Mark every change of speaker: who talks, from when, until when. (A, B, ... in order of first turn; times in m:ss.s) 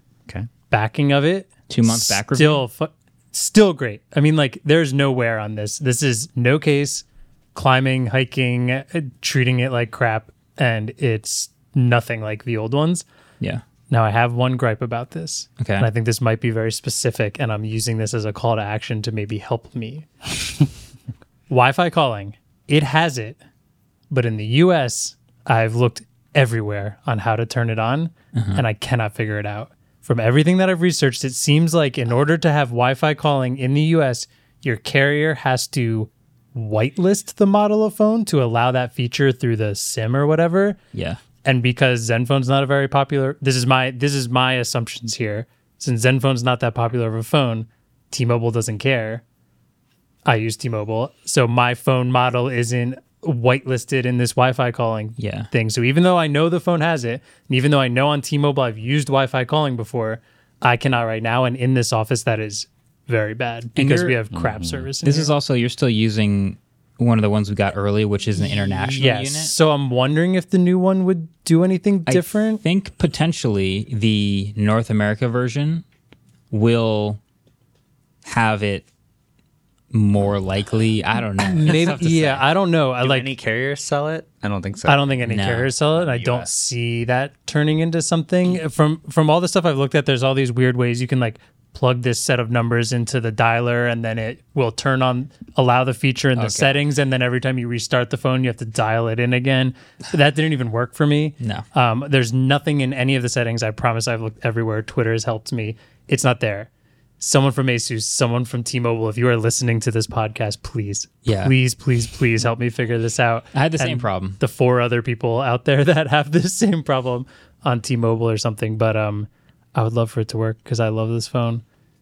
0:00.7-0:13.0 A
0:01.7-0:02.7 B
0:13.9-0:20.1 A
0:15.6-0:15.9 B
0:21.5-0:23.4 A
0:24.1-0:40.8 A
0:28.4-0:28.6 B
0:40.9-0:41.2 B
0:41.4-0:49.2 A
0:50.2-1:05.3 A
0:55.2-0:55.5 B
1:03.8-1:04.2 B
1:04.3-1:04.9 C
1:05.0-1:09.5 B
1:08.5-1:12.6 A
1:12.1-1:15.8 B
1:16.5-1:17.2 B
1:18.2-1:18.9 B
1:19.9-1:22.4 B
1:21.5-1:23.3 A
1:23.0-1:25.2 C
1:24.9-1:46.7 A
1:25.2-1:25.7 B
1:25.9-1:26.5 C
1:36.4-1:36.8 B
1:41.4-1:41.6 B
1:47.2-2:01.6 A
1:51.2-1:51.5 B
1:53.5-1:54.4 B